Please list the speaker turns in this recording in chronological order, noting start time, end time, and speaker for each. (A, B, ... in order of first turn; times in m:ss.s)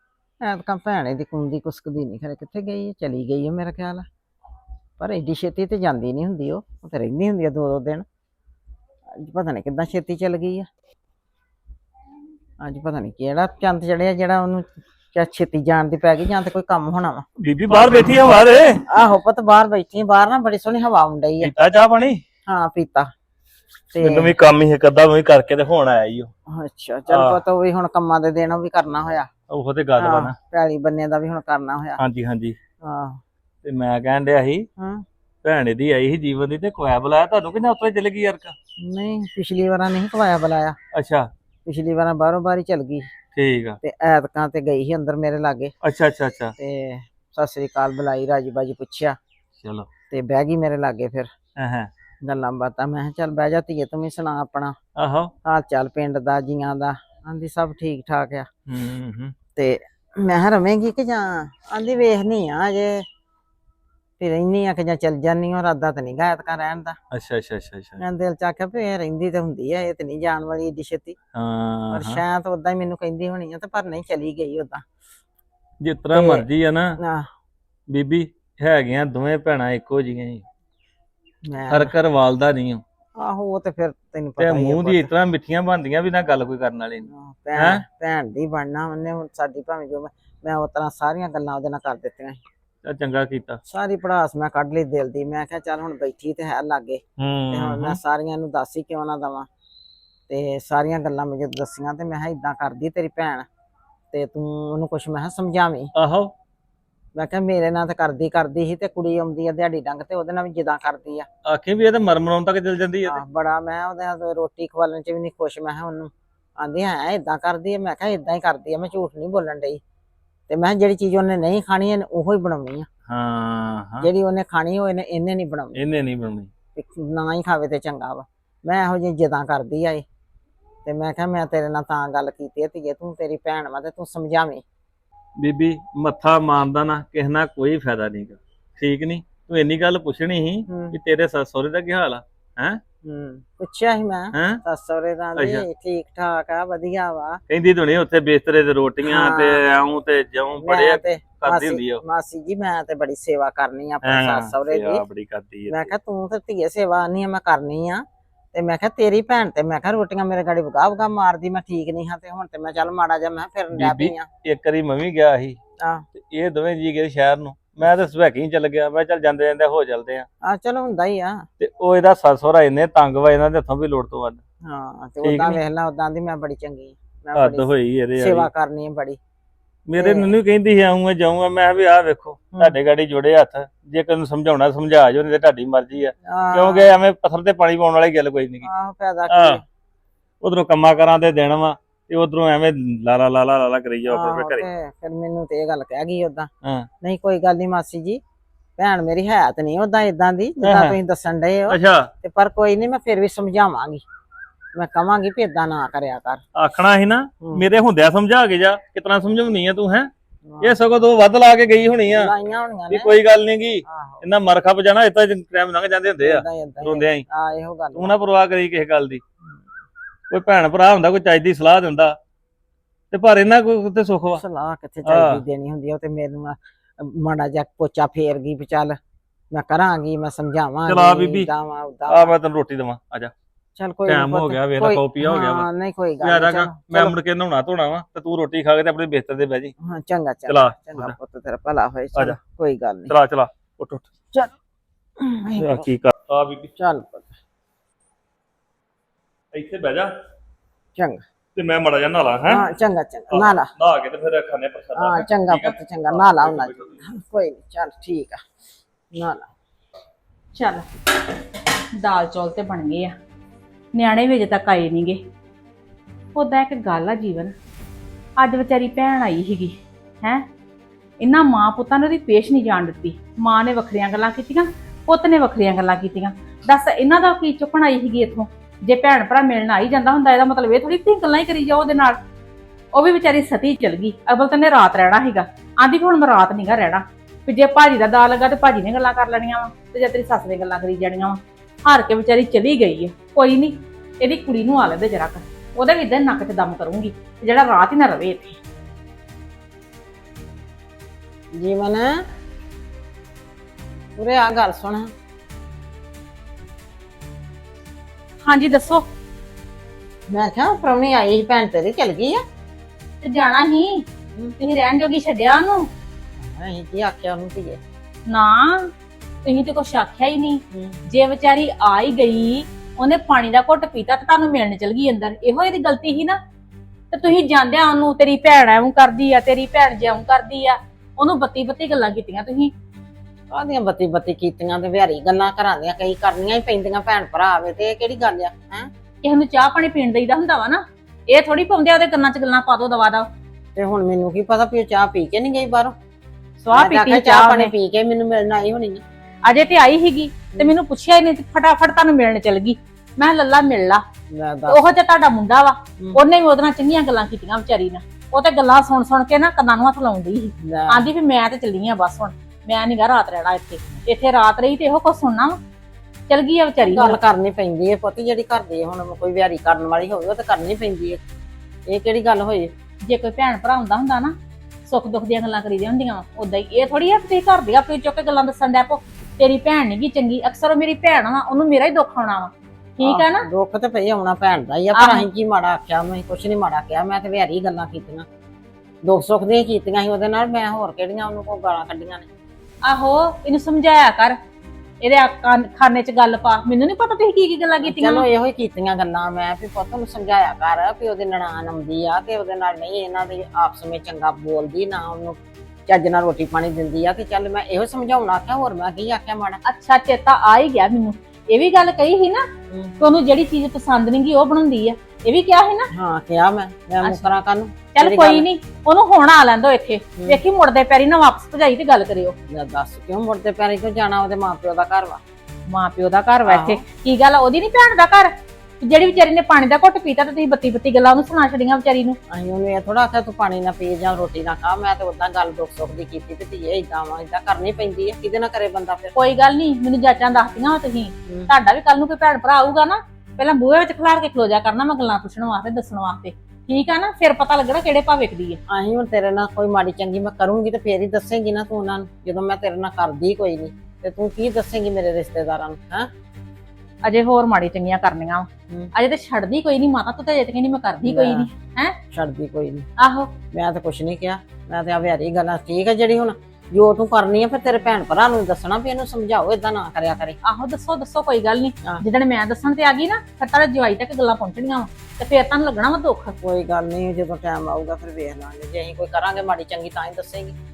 0:00.4-0:04.1 A
0:05.0-0:08.0 A
0:09.2-0:10.7 A
0:12.6-0:21.5 A
0:17.4-0:18.8 B
0:21.4-0:22.2 B
0:22.5-0:23.1 A
0:23.9-0:24.4 A
0:24.0-0:26.3 B
0:26.5-0:29.3 A
0:27.1-0:27.4 B
0:29.5-0:30.3 B
0:30.0-0:32.0 A
0:32.0-0:32.6 B
0:32.8-0:33.2 A
0:33.6-0:34.7 B
0:34.8-0:35.0 A
0:35.4-0:38.5 B
0:38.8-0:40.8 A
0:40.9-0:41.3 B
0:41.7-0:43.0 A
0:43.3-0:43.8 B
0:43.8-0:45.7 A
0:45.8-0:46.5 B
0:46.6-0:49.2 A
0:49.6-0:49.9 B
0:50.1-0:51.3 A
0:51.6-0:51.9 B
0:52.2-0:54.8 A
0:55.0-0:55.3 B
0:55.4-0:58.5 A
0:58.7-0:59.3 B
0:59.6-1:03.0 A
1:04.2-1:07.0 A
1:07.1-1:08.0 B
1:08.0-1:11.1 A
1:11.3-1:12.2 B
1:11.9-1:14.8 A
1:15.8-1:17.0 B
1:16.1-1:16.4 A
1:17.0-1:17.3 A
1:17.9-1:20.4 B
1:21.5-1:21.9 A
1:21.7-1:22.8 B
1:23.2-1:25.1 A
1:24.4-1:27.8 B
1:27.0-1:32.4 A
1:32.8-1:33.6 B
1:33.7-1:39.5 A
1:37.2-1:38.0 B
1:40.3-1:43.5 A
1:44.1-1:45.9 A
1:45.9-1:46.3 B
1:47.1-1:51.3 A
1:51.4-1:53.2 B
1:53.0-1:59.8 A
2:00.5-2:02.9 A
2:03.1-2:04.1 B
2:04.0-2:05.8 A
2:05.7-2:06.5 B
2:06.8-2:10.0 A
2:10.8-2:14.6 A
2:15.4-2:22.8 B
2:20.7-2:21.0 A
2:23.0-2:27.4 A
2:24.3-2:24.6 B
2:25.4-2:25.7 B
2:27.5-2:32.0 B
2:29.0-2:29.6 A
2:30.6-2:35.0 A
2:34.0-2:35.9 B
2:35.7-2:44.3 A
2:43.7-2:45.6 B
2:45.8-2:46.1 A
2:46.2-2:50.3 B
2:50.4-2:51.5 A
2:51.6-2:54.4 B
2:54.6-2:59.2 A
2:55.2-2:55.6 B
2:57.4-2:58.5 B
2:59.9-3:08.7 B
3:00.0-3:00.3 A
3:06.2-3:06.9 A
3:08.6-3:09.6 A
3:09.3-3:09.6 B
3:10.4-3:14.6 B
3:14.1-3:16.5 A
3:17.0-3:18.2 A
3:18.8-3:24.0 A
3:20.6-3:21.0 B
3:21.7-3:22.1 B
3:24.8-3:26.4 A
3:26.6-3:30.1 B
3:30.5-3:30.8 A
3:30.6-3:32.3 B
3:32.1-3:33.1 A
3:32.9-3:37.2 B
3:33.8-3:34.3 A
3:36.2-3:38.2 A
3:38.0-3:39.2 B
3:40.3-3:42.2 B
3:43.1-3:44.4 B
3:44.4-3:49.0 A
3:45.1-3:45.4 B
3:49.5-3:52.3 A
3:50.9-3:51.5 B
3:52.1-3:53.3 B
3:53.8-3:57.1 A
3:54.1-3:55.7 B
3:56.2-3:59.7 B
3:59.8-4:03.1 A
4:00.5-4:01.2 B
4:03.1-4:04.1 B
4:05.2-4:05.9 A
4:05.6-4:06.7 B
4:06.8-4:07.3 A
4:09.5-4:10.1 B
4:11.0-4:11.2 A
4:11.6-4:12.7 B
4:12.5-4:13.7 A
4:13.3-4:17.0 B
4:14.9-4:18.4 A
4:19.1-4:19.5 A
4:20.5-4:20.9 C
4:21.9-4:23.1 C
4:23.9-4:25.2 C
4:26.3-4:27.5 C
4:28.4-4:30.4 C
4:31.2-4:42.2 C
4:42.9-4:58.6 C
5:01.6-5:02.2 A
5:04.2-5:05.1 A
5:08.4-5:09.0 C
5:10.3-5:12.4 A
5:13.2-5:14.1 C
5:14.6-5:15.9 C
5:16.4-5:17.8 A
5:18.3-5:18.9 C
5:19.4-5:26.4 C
5:20.7-5:21.0 A
5:27.1-5:32.7 C
5:33.5-5:38.9 A
5:39.2-5:43.3 C
5:43.8-5:46.0 A
5:46.6-5:47.7 C
5:46.7-5:49.0 A
5:49.4-5:54.0 C
5:54.3-5:54.9 A
5:54.7-6:05.6 C
6:00.6-6:01.1 A
6:06.3-6:07.2 C
6:06.8-6:11.2 A
6:11.9-6:12.7 A
6:13.1-6:14.3 C
6:14.9-6:23.4 C
6:23.0-6:28.2 A
6:24.9-6:25.2 C
6:29.0-6:32.3 A
6:32.8-6:34.4 C
6:35.0-6:38.2 C
6:37.8-6:49.6 A
6:49.6-6:52.4 C
6:53.0-6:55.9 C
6:55.9-6:58.5 A
6:57.0-6:57.3 C
6:57.9-7:02.4 C
7:02.5-7:05.2 A
7:05.7-7:12.2 C
7:06.5-7:06.8 A
7:12.3-7:19.1 A
7:19.2-7:28.6 C
7:28.7-7:36.1 A
7:37.0-7:42.0 C
7:41.0-7:41.5 A
7:42.1-7:42.9 A
7:43.0-7:43.3 C
7:43.5-7:50.4 A
7:50.4-7:56.4 C
7:56.4-8:00.6 A